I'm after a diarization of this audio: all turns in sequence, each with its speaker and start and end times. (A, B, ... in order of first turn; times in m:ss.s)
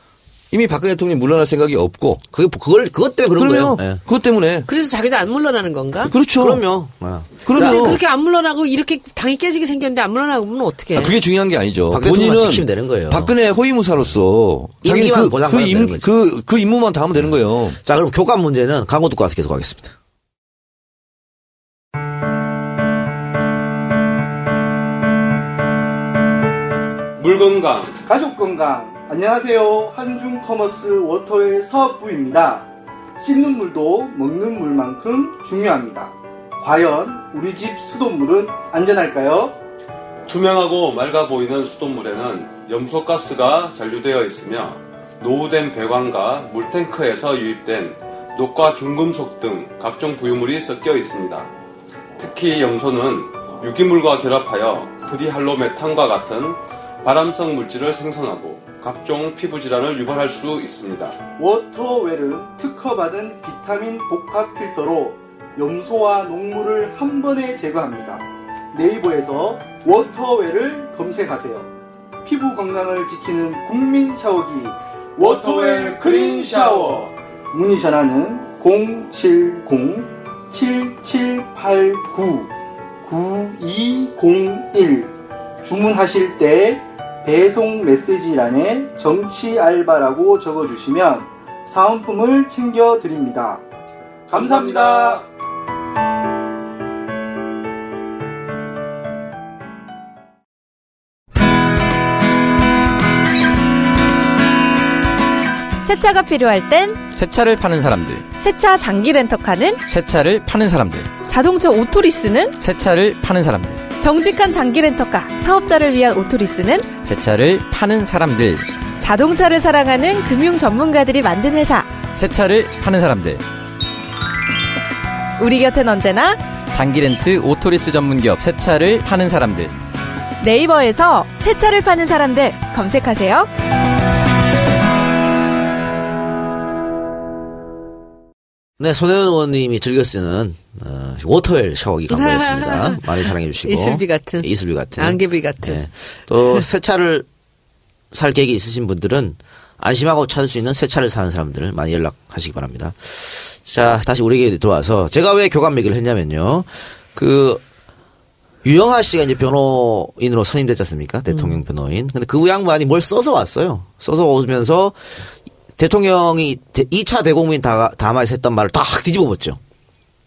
0:00.5-0:02.2 A
0:02.3-0:04.0 B
0:03.4-0:04.7 A
0:04.7-0:06.1 C
0:06.1-0:06.6 A
0:06.3-0:08.0 B
0:07.4-0:08.0 A
0:07.5-0:11.1 C
0:10.9-0:17.8 A
0:11.9-0:13.3 B
0:14.8-0:16.1 B
0:17.8-0:19.9 B
0:27.2-0:28.0 D
0:28.0-0:32.7 E
0:33.2-0:39.6 E
0:40.2-0:51.5 D
0:52.2-1:01.2 D
1:01.4-1:11.7 E
1:12.2-1:22.5 E
1:15.2-1:17.0 D
1:23.0-1:25.1 E
1:25.6-1:33.6 E
1:34.3-1:35.3 E
1:45.8-1:47.0 F
1:47.1-1:48.3 G
1:48.4-1:49.8 F
1:49.9-1:51.1 G
1:51.2-1:52.6 F
1:52.6-1:53.9 G
1:54.0-1:56.9 F
1:57.0-1:58.6 G
1:59.0-2:02.0 F
2:02.1-2:03.4 G
2:05.4-2:06.4 F
2:06.7-2:09.7 G
2:10.4-2:13.5 F
2:18.8-2:27.3 B
2:22.1-2:25.9 C
2:28.1-2:37.6 B
2:38.6-2:49.6 B
2:41.4-2:41.6 C